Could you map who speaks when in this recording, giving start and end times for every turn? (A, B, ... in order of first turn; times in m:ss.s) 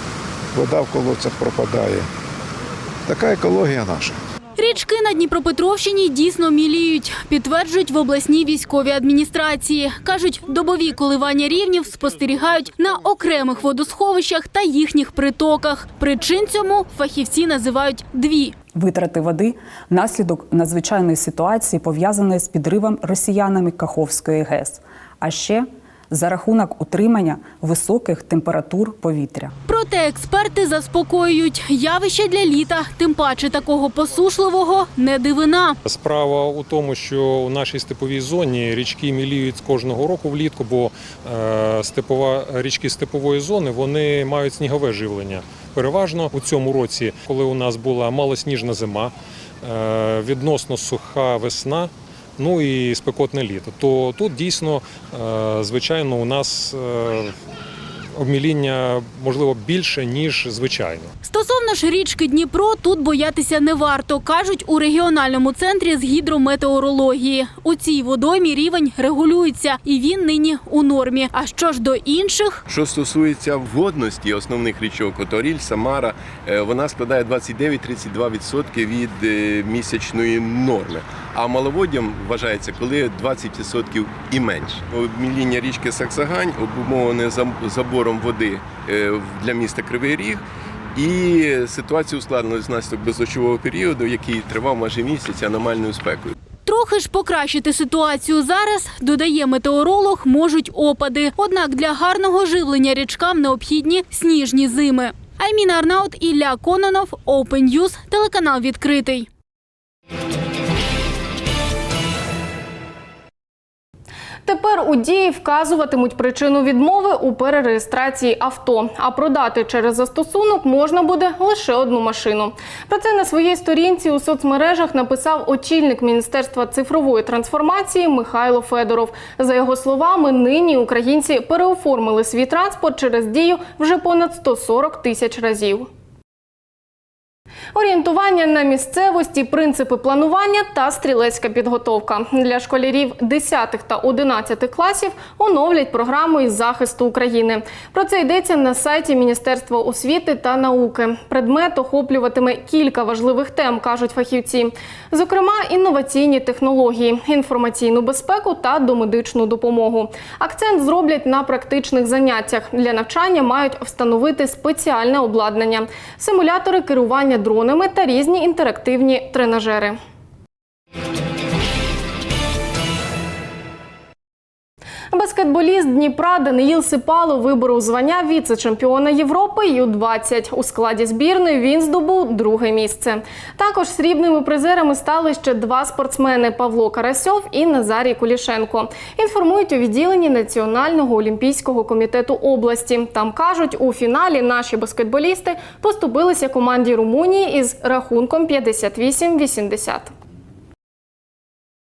0:00.5-0:02.1 A
0:03.0-0:04.2 A
0:04.6-0:18.5 B
0:18.7-0:29.5 C
0:29.7-0:35.8 B
0:35.8-0:57.3 D
0:58.2-1:01.1 D
1:01.2-1:12.6 B
1:12.7-1:30.4 E
1:30.9-1:36.4 E
1:36.6-1:49.3 B
1:54.4-2:15.9 F
2:17.7-2:50.0 F
2:55.1-3:20.1 F